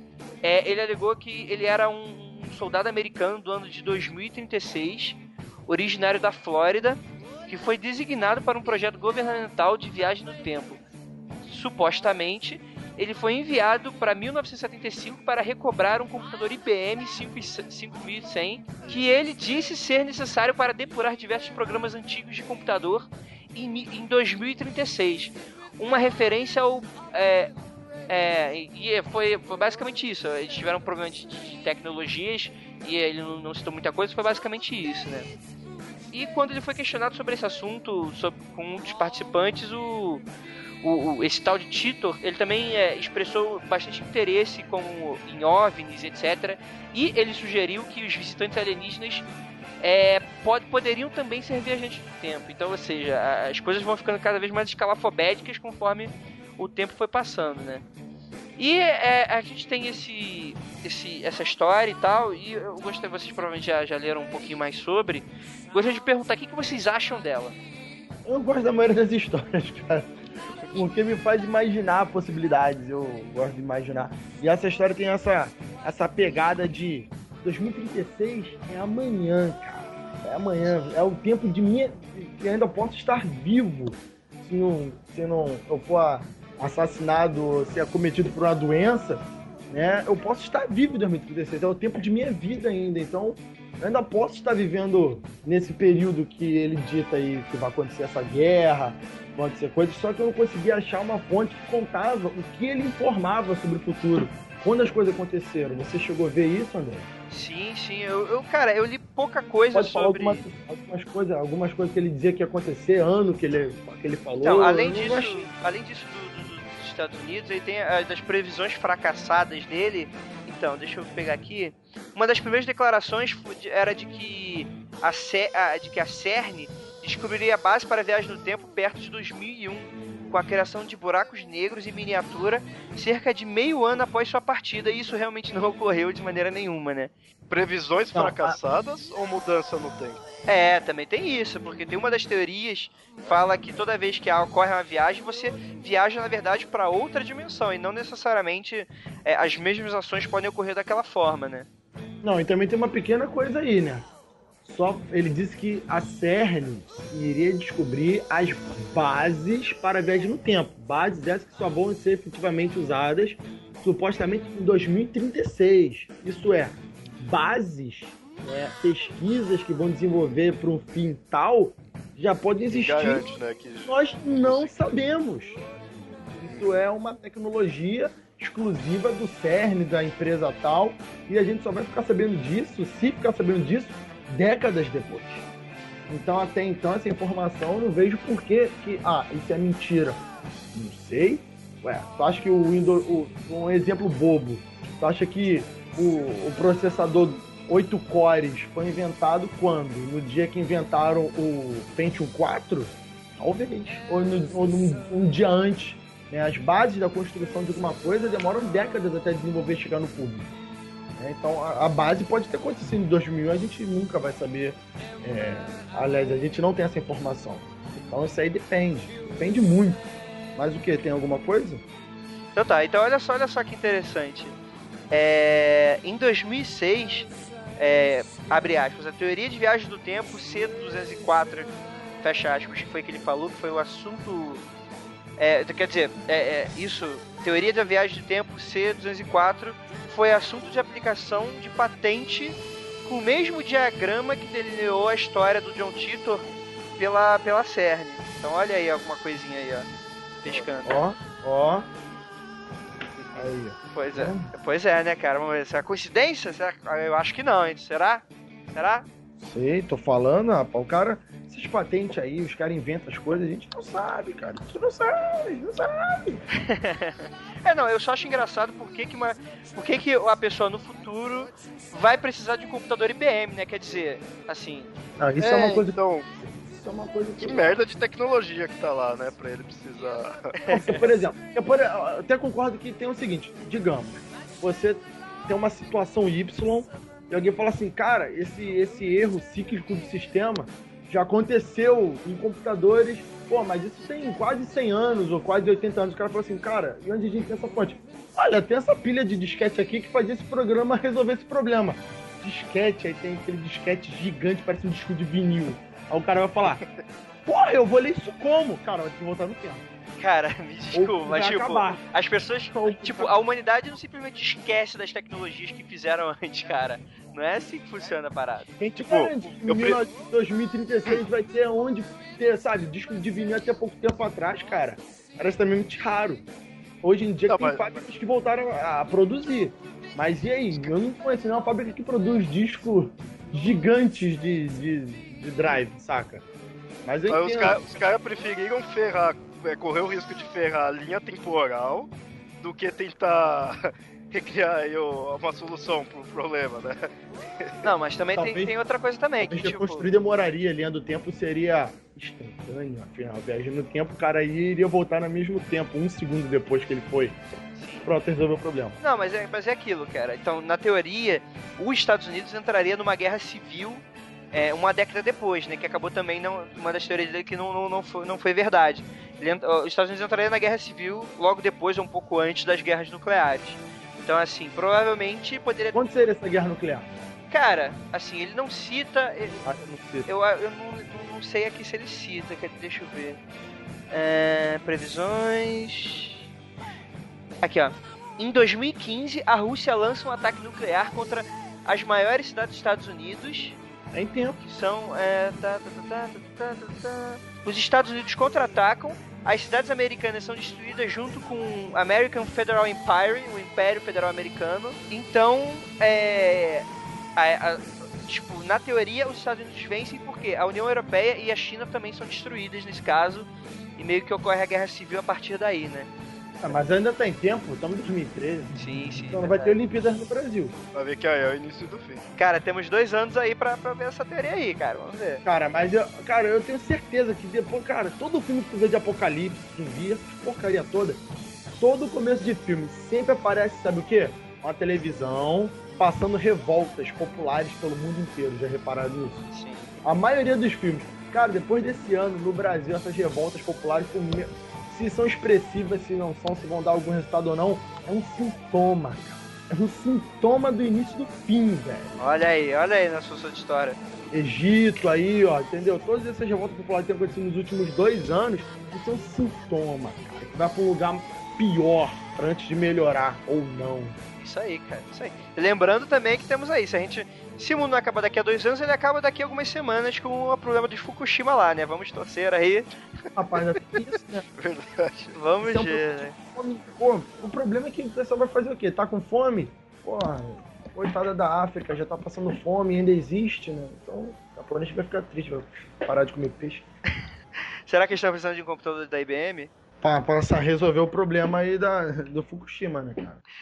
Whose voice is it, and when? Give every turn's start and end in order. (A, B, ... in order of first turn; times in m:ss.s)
0:00.4-0:10.8 A
0:11.4-0:27.5 A
0:28.1-0:35.3 A
0:36.1-0:40.2 A
0:40.8-0:49.2 A
0:49.8-0:57.8 A
0:58.6-1:07.5 A
1:08.2-1:10.1 B
1:10.7-1:47.1 B
1:47.3-1:50.4 A
1:49.7-1:55.5 B
1:54.4-2:17.1 A
2:17.5-2:20.2 C
2:18.1-2:18.6 B
2:20.5-2:31.7 A
2:32.2-2:34.1 B
2:34.6-2:53.2 B
2:52.7-2:54.8 C
2:53.9-2:55.6 B
2:56.4-3:05.4 B
2:56.5-2:56.8 C
3:06.1-3:10.2 B
3:10.7-3:30.5 B
3:31.2-3:40.0 B
3:40.6-3:41.8 B
3:42.5-3:44.6 A
3:45.1-3:54.6 A
3:55.4-4:09.9 A
4:10.4-4:11.0 A
4:10.4-4:11.9 B
4:13.3-4:14.5 B
4:13.9-4:19.1 A
4:19.4-4:26.4 B
4:26.5-4:34.9 A
4:35.2-4:36.0 B
4:35.4-4:36.3 C
4:36.7-4:37.8 B
4:37.4-4:40.5 C
4:40.6-4:41.1 A
4:40.7-5:06.8 B
5:07.4-5:09.9 B
5:10.2-5:18.7 A
5:10.9-5:12.0 B
5:12.7-5:13.3 B
5:18.8-5:26.4 B
5:19.1-5:20.0 C
5:27.0-5:36.4 B
5:27.5-5:27.8 C
5:37.0-5:37.8 B
5:37.3-5:47.9 C
5:47.8-5:50.1 A
5:48.3-5:48.7 B
5:49.4-5:57.4 B
5:57.7-5:58.1 A
5:58.0-5:59.0 B
5:59.0-6:16.0 A
6:15.9-6:17.1 B
6:17.5-6:19.6 A
6:19.6-6:20.3 B
6:20.2-6:23.4 A
6:24.1-6:26.3 A
6:27.6-6:33.8 A
6:34.1-6:34.6 B
6:34.6-6:56.1 A
6:56.6-6:58.8 B
6:58.8-6:59.8 A
6:59.3-7:00.8 B
7:00.9-7:02.2 C
7:02.4-7:05.4 A
7:05.4-7:11.2 B
7:11.7-7:19.4 B
7:19.5-7:19.9 A
7:20.0-7:32.2 B
7:32.2-7:34.0 A
7:34.3-7:44.2 B
7:44.4-7:52.9 A
7:53.4-7:54.4 B
7:54.6-7:55.4 C
7:55.3-7:56.3 A
7:55.6-8:06.8 B
8:07.9-8:09.7 A
8:10.0-8:13.4 B